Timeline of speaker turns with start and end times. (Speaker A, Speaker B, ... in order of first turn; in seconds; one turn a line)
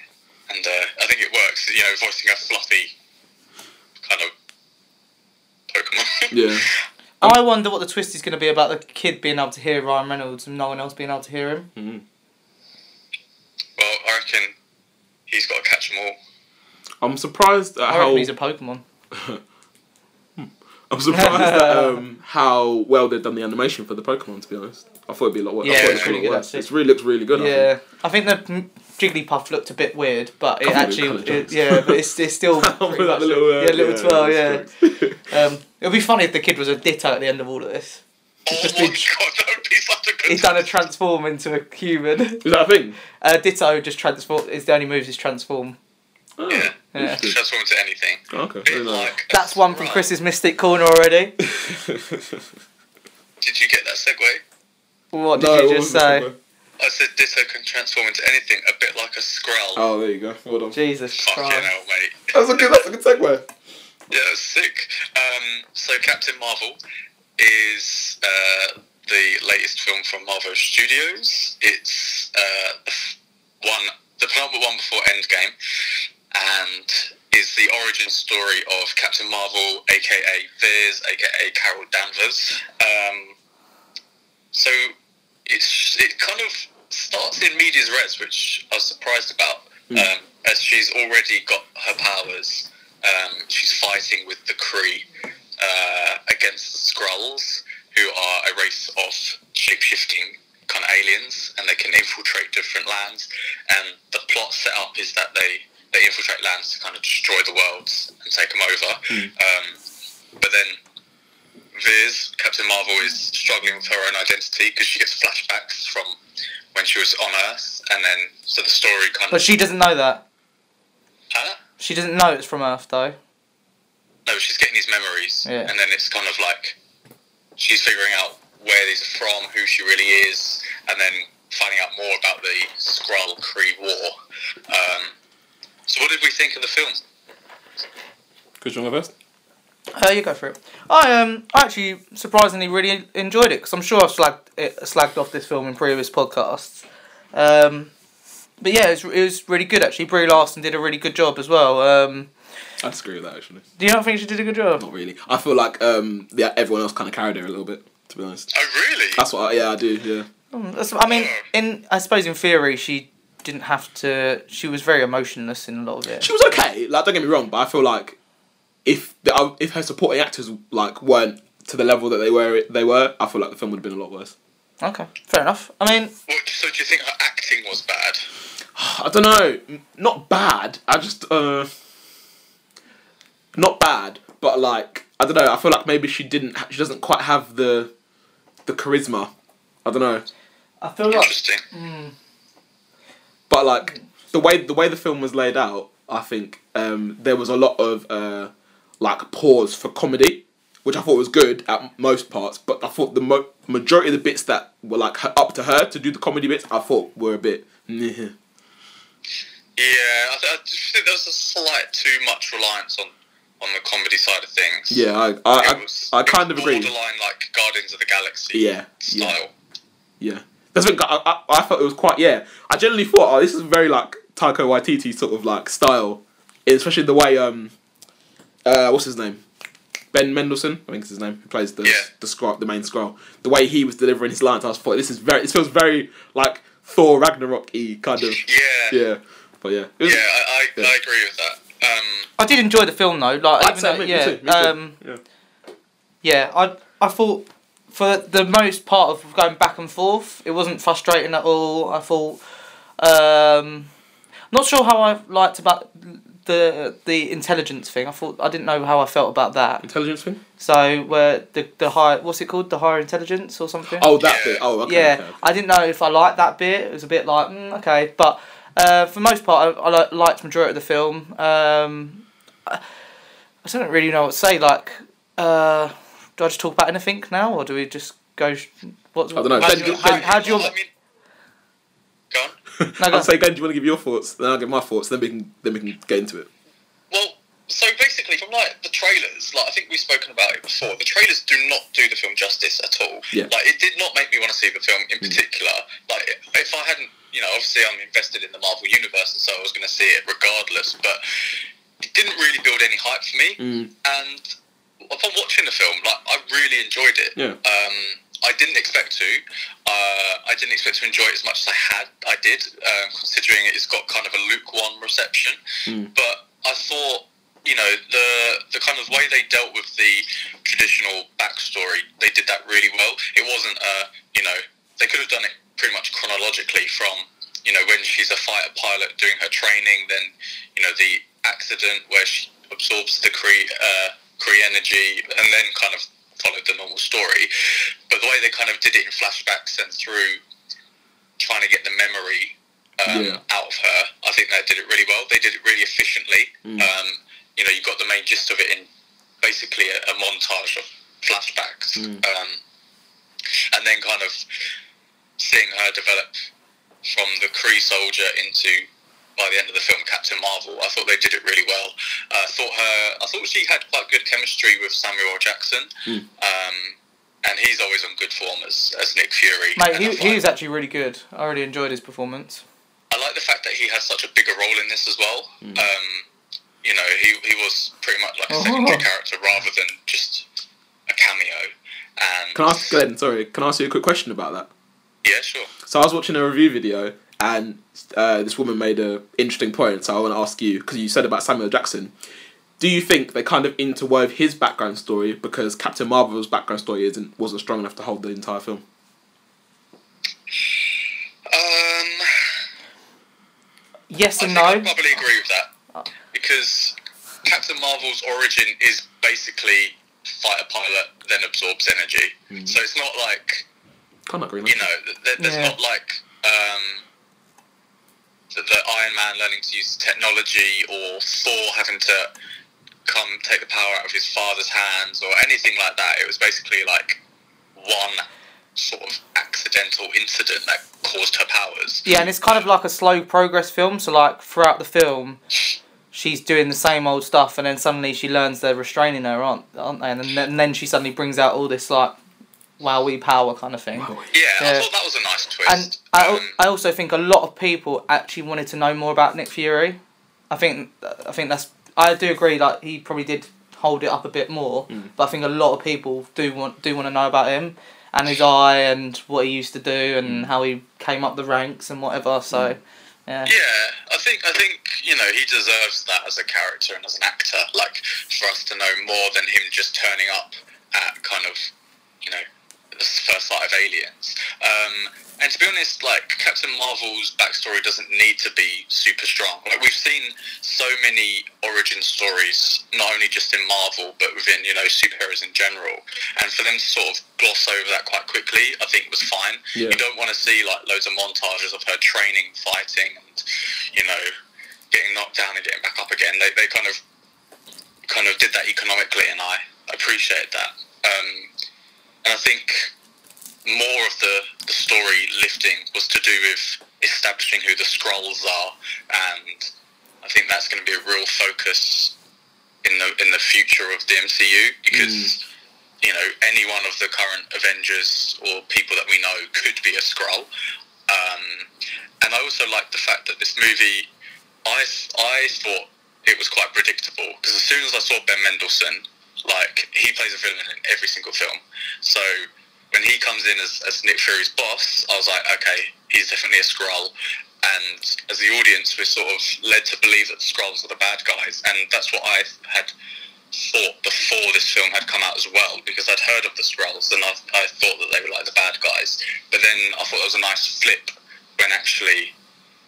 Speaker A: 0.5-2.9
Speaker A: 4.0-4.3
Speaker A: 5.7-6.8
Speaker B: 6.3-6.7
Speaker C: 7.2-11.7
Speaker B: 11.8-12.0
Speaker A: 13.8-14.5
Speaker A: 15.3-16.2
Speaker B: 17.0-18.3
Speaker C: 17.9-18.8
Speaker B: 19.1-19.4
Speaker B: 20.4-27.7
Speaker C: 21.1-22.0
Speaker C: 25.6-26.7
Speaker A: 25.7-26.1
Speaker C: 27.3-34.7
Speaker B: 30.6-35.3
Speaker C: 35.3-39.1
Speaker A: 38.5-40.7
Speaker C: 40.3-42.4
Speaker B: 42.4-43.0
Speaker C: 43.2-45.8
Speaker B: 46.4-47.4
Speaker A: 46.5-50.1
Speaker C: 46.9-47.2
Speaker B: 48.3-49.1
Speaker C: 49.3-51.3
Speaker B: 51.4-52.4
Speaker A: 53.4-54.4
Speaker C: 55.1-56.3
Speaker B: 55.3-56.4
Speaker A: 56.8-59.8
Speaker B: 59.8-60.8
Speaker C: 60.7-61.7
Speaker A: 61.1-62.8
Speaker B: 62.3-63.5
Speaker A: 64.1-66.8
Speaker A: 67.4-75.5
Speaker A: 76.3-83.3
Speaker A: 84.5-84.9
Speaker A: 85.5-95.1
Speaker A: 95.6-109.8
Speaker A: 110.4-110.8
Speaker A: 111.7-116.2
Speaker A: 116.7-119.5
Speaker C: 119.3-120.2
Speaker A: 121.3-121.6
Speaker C: 121.8-123.2
Speaker A: 124.2-126.8
Speaker C: 125.5-125.7
Speaker A: 127.6-134.1
Speaker A: 134.7-135.1
Speaker A: 135.9-137.0
Speaker B: 138.6-139.1
Speaker C: 139.9-147.9
Speaker C: 148.6-152.3
Speaker B: 152.8-153.6
Speaker C: 153.8-154.8
Speaker B: 154.8-158.5
Speaker A: 158.5-159.2
Speaker B: 159.2-160.3
Speaker C: 160.5-166.3
Speaker A: 161.1-161.5
Speaker B: 166.2-168.2
Speaker B: 168.8-174.3
Speaker C: 174.8-176.1
Speaker A: 176.3-178.3
Speaker B: 178.7-181.7
Speaker B: 183.5-187.9
Speaker B: 188.7-189.3
Speaker B: 189.8-190.2
Speaker C: 190.8-192.1
Speaker A: 191.1-191.6
Speaker B: 193.5-208.3
Speaker A: 209.8-215.0
Speaker B: 214.9-216.9
Speaker A: 215.6-219.5
Speaker B: 218.5-219.3
Speaker B: 220.2-227.7
Speaker B: 228.6-229.4
Speaker B: 230.1-240.2
Speaker A: 231.8-232.1
Speaker A: 238.3-239.0
Speaker A: 240.0-242.3
Speaker C: 242.4-245.0
Speaker B: 243.6-245.2
Speaker C: 246.2-252.4
Speaker C: 253.0-253.9
Speaker C: 254.5-259.9
Speaker B: 259.8-260.4
Speaker C: 260.6-264.1
Speaker B: 263.9-265.4
Speaker A: 264.2-264.6
Speaker C: 264.8-272.8
Speaker C: 273.6-280.7
Speaker B: 279.3-280.4
Speaker A: 279.6-280.9
Speaker A: 282.3-282.6
Speaker B: 282.8-286.5
Speaker C: 283.0-283.3
Speaker A: 287.1-301.2
Speaker A: 302.0-304.5
Speaker B: 303.6-303.9
Speaker A: 305.1-315.6
Speaker A: 316.1-337.5
Speaker A: 338.1-340.4
Speaker A: 341.4-348.9
Speaker B: 343.1-343.4
Speaker B: 346.6-346.9
Speaker A: 349.4-352.6
Speaker B: 351.9-352.2
Speaker A: 353.7-354.4
Speaker A: 355.4-356.4
Speaker A: 357.0-370.4
Speaker C: 369.8-372.6
Speaker A: 373.1-376.2
Speaker A: 376.8-380.4
Speaker C: 378.5-379.0
Speaker A: 381.1-383.0
Speaker B: 382.5-384.7
Speaker A: 385.2-385.7
Speaker B: 385.8-392.1
Speaker B: 392.8-398.8
Speaker A: 401.5-402.3
Speaker C: 404.1-404.9
Speaker A: 404.4-405.7
Speaker A: 406.3-413.6
Speaker B: 412.5-412.8
Speaker B: 414.3-414.8
Speaker A: 414.6-417.0
Speaker C: 415.4-415.8
Speaker A: 418.5-422.3
Speaker A: 423.1-427.2
Speaker A: 427.8-428.2
Speaker A: 428.8-432.7
Speaker C: 432.1-435.4
Speaker C: 436.1-442.1
Speaker C: 442.8-444.9
Speaker B: 443.9-444.3
Speaker A: 444.3-446.6
Speaker C: 445.6-450.0
Speaker C: 450.5-463.5
Speaker B: 460.2-460.5
Speaker B: 462.5-462.8
Speaker A: 463.4-471.7
Speaker A: 472.9-494.3
Speaker B: 489.7-490.0
Speaker A: 494.9-497.0
Speaker A: 498.1-501.5
Speaker A: 502.2-502.9
Speaker A: 503.6-509.7
Speaker A: 510.2-512.1
Speaker A: 512.8-515.4
Speaker B: 514.9-515.3
Speaker A: 516.0-520.5
Speaker A: 521.1-521.7
Speaker A: 522.2-524.1
Speaker A: 524.6-542.9
Speaker A: 543.5-552.3